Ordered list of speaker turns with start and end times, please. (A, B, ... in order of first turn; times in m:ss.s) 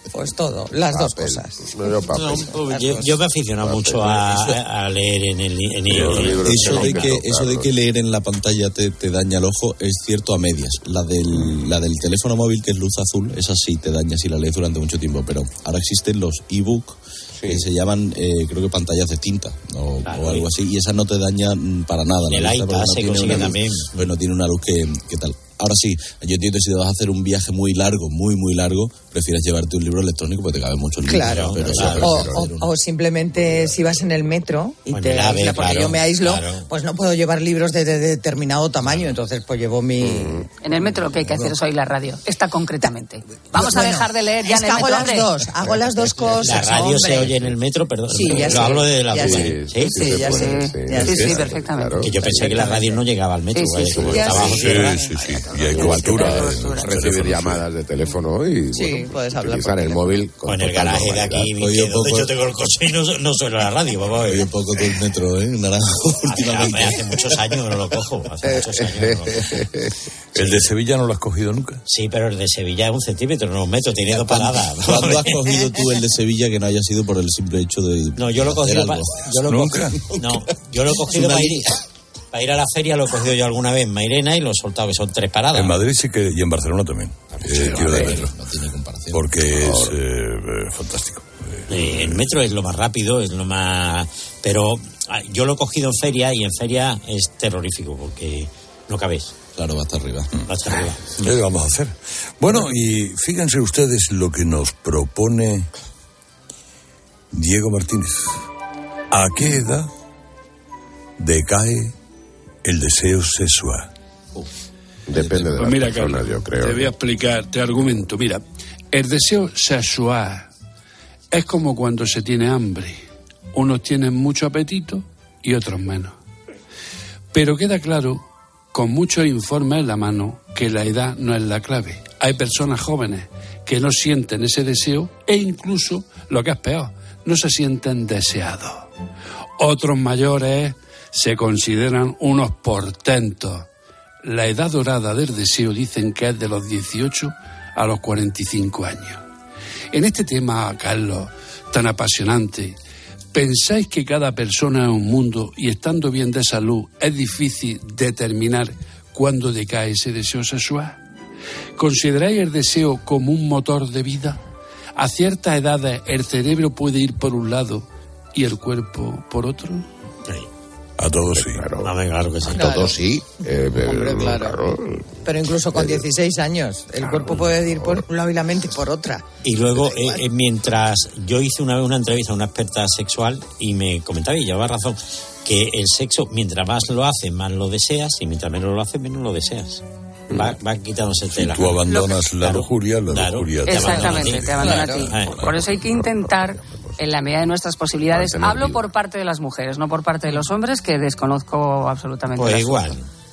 0:00.1-0:02.8 A
0:00.9-0:04.3 B
0:02.5-0:07.1 C
0:04.0-0:04.6 D
0:05.9-0:06.4 E
0:05.9-0:07.7 B
0:05.9-0:32.7 D
0:17.4-0:17.6 B
0:20.0-0:20.5 C
0:22.3-0:24.1 C
0:31.0-0:40.4 A
0:31.2-0:32.1 C
0:31.6-0:32.5 B
0:33.4-0:33.8 B
0:34.9-0:36.7 C
0:40.0-0:40.5 B
0:40.6-0:45.4 F
0:43.5-0:47.3 A
0:46.4-0:50.2 C
0:48.1-0:51.4 A
0:48.5-0:53.0 B
0:50.3-0:52.0 F
0:52.0-0:54.8 C
0:52.2-0:52.8 A
0:53.5-0:53.9 F
0:53.9-0:54.7 B
0:54.1-0:56.8 A
0:54.4-0:57.6 E
0:55.3-1:01.5 B
0:58.7-1:00.2 A
1:00.4-1:04.5 C
1:00.7-1:02.4 D
1:04.2-1:07.4 D
1:06.2-1:09.6 C
1:08.4-1:09.9 B
1:10.3-1:11.8 E
1:10.4-1:10.7 C
1:11.9-1:15.5 C
1:14.1-1:19.3 D
1:18.2-1:21.8 C
1:19.4-1:20.0 E
1:20.0-1:21.7 D
1:22.3-1:25.8 C
1:25.5-1:28.3 E
1:27.4-1:29.8 D
1:27.4-1:28.1 B
1:29.1-1:32.3 E
1:29.6-1:29.9 B
1:31.7-1:39.3 C
1:39.6-1:40.3 D
1:40.5-1:41.3 C
1:41.2-1:45.7 E
1:47.3-1:48.4 E
1:49.1-1:49.9 E
1:51.2-1:51.9 E
1:52.6-1:53.9 E
1:55.1-1:56.9 B
1:55.1-1:55.7 D
1:55.6-2:00.5 G
2:01.3-2:03.0 G
2:03.5-2:06.2 G
2:07.3-2:18.9 G
2:19.6-2:23.7 G
2:24.2-2:29.2 G
2:29.9-2:32.8 G
2:33.3-2:41.0 G
2:41.8-2:44.4 G
2:45.0-2:49.8 G
2:51.0-2:51.7 E
2:51.3-2:51.9 B
2:51.8-2:52.9 C
2:52.5-2:55.1 B
2:52.5-2:52.9 A
2:53.8-2:54.6 A
2:55.2-3:00.2 A
2:55.7-2:56.1 B
2:57.0-2:58.0 B
2:59.4-3:15.4 C
3:10.3-3:10.6 B
3:11.3-3:15.8 E
3:11.8-3:12.2 F
3:13.6-3:23.0 F
3:14.6-3:15.0 A
3:15.7-3:17.0 B
3:18.1-3:18.8 B
3:22.3-3:23.1 C